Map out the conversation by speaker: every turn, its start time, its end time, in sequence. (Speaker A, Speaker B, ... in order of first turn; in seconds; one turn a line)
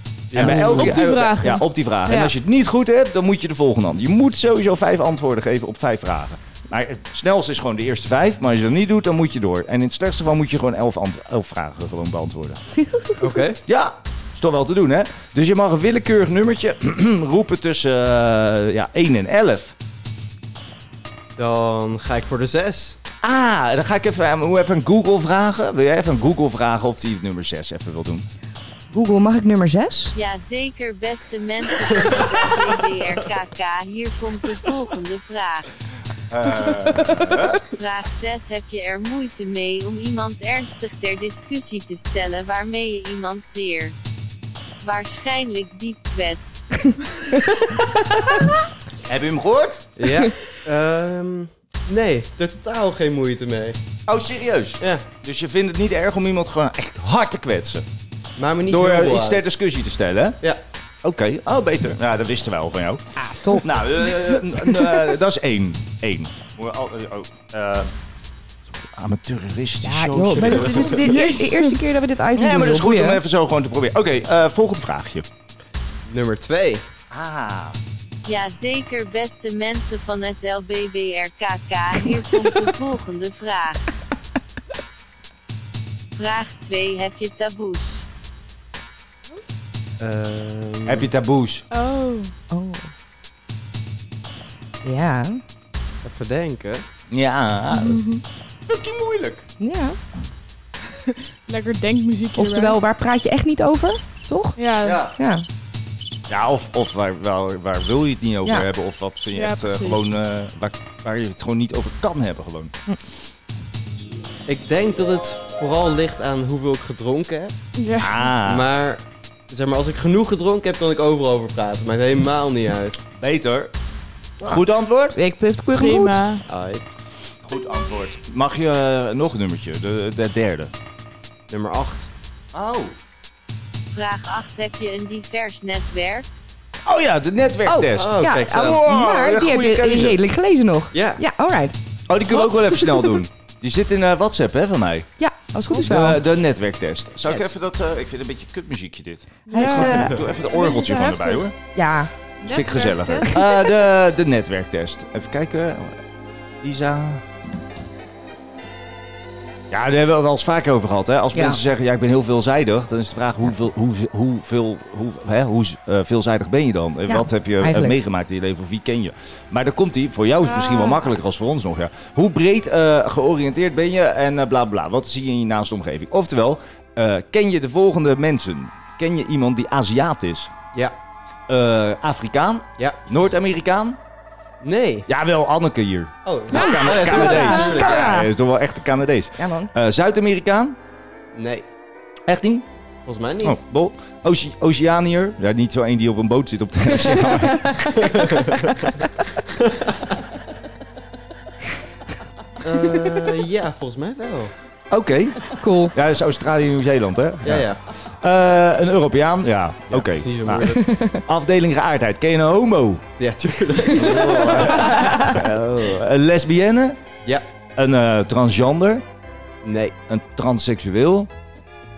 Speaker A: 0.3-1.0
Speaker B: 0.3-12.6
Speaker C: 0.4-2.4
Speaker A: 13.2-13.6
Speaker B: 13.7-19.7
Speaker A: 21.4-23.0
Speaker B: 23.2-28.3
Speaker D: 28.9-30.1
Speaker E: 30.1-35.7
Speaker B: 36.3-37.6
Speaker E: 37.6-44.0
Speaker E: 44.8-46.9
Speaker B: 49.1-49.9
Speaker A: 50.0-53.8
Speaker B: 54.1-57.9
Speaker A: 54.8-55.1
Speaker A: 58.4-59.5
Speaker B: 58.7-60.4
Speaker B: 61.0-67.9
Speaker D: 63.2-65.0
Speaker B: 68.7-71.1
Speaker D: 69.8-73.2
Speaker C: 71.1-71.9
Speaker B: 72.4-75.3
Speaker A: 76.1-76.9
Speaker B: 77.1-77.8
Speaker E: 78.2-83.9
Speaker E: 86.1-88.0
Speaker A: 90.0-91.1
Speaker B: 90.9-91.7
Speaker C: 91.7-92.3
Speaker D: 92.5-92.9
Speaker D: 94.8-95.4
Speaker A: 96.0-96.9
Speaker B: 97.1-98.0
Speaker C: 97.8-98.2
Speaker B: 98.7-99.5
Speaker D: 99.6-100.0
Speaker C: 101.5-102.8
Speaker D: 102.4-105.5
Speaker C: 104.6-105.0
Speaker B: 104.8-105.1
Speaker B: 106.3-112.7
Speaker C: 109.3-110.1
Speaker A: 114.5-117.6
Speaker C: 117.8-118.2
Speaker B: 118.0-118.7
Speaker A: 118.4-123.0
Speaker B: 123.2-123.7
Speaker B: 124.4-125.2
Speaker D: 125.1-126.2
Speaker C: 125.8-126.4
Speaker A: 126.5-126.8
Speaker B: 127.4-130.7
Speaker A: 131.5-132.1
Speaker B: 132.5-133.0
Speaker E: 133.9-136.3
Speaker B: 136.8-140.2
Speaker D: 137.7-141.8
Speaker A: 137.9-138.8
Speaker A: 140.9-141.2
Speaker B: 142.1-145.1
Speaker D: 145.2-146.2
Speaker B: 145.8-151.5
Speaker C: 149.5-151.5
Speaker D: 149.5-150.2
Speaker D: 151.8-152.1
Speaker C: 152.4-153.4
Speaker B: 152.4-156.0
Speaker B: 156.6-157.2
Speaker B: 159.7-180.5
Speaker D: 161.3-161.6
Speaker D: 167.1-168.0
Speaker C: 170.4-171.1
Speaker B: 181.5-184.0
Speaker A: 184.6-185.1
Speaker B: 185.1-190.8
Speaker A: 186.2-188.2
Speaker D: 186.5-188.3
Speaker D: 189.4-189.7
Speaker A: 191.3-191.7
Speaker B: 192.3-192.7
Speaker A: 193.1-193.6
Speaker B: 193.4-198.4
Speaker A: 198.2-198.5
Speaker A: 199.6-200.0
Speaker A: 202.6-204.5
Speaker B: 204.9-213.1
Speaker D: 205.6-205.9
Speaker A: 207.4-207.8
Speaker A: 209.9-210.9
Speaker D: 210.8-211.2
Speaker A: 213.2-215.3
Speaker B: 213.9-217.0
Speaker B: 217.8-219.0
Speaker A: 219.6-220.0
Speaker B: 220.1-221.3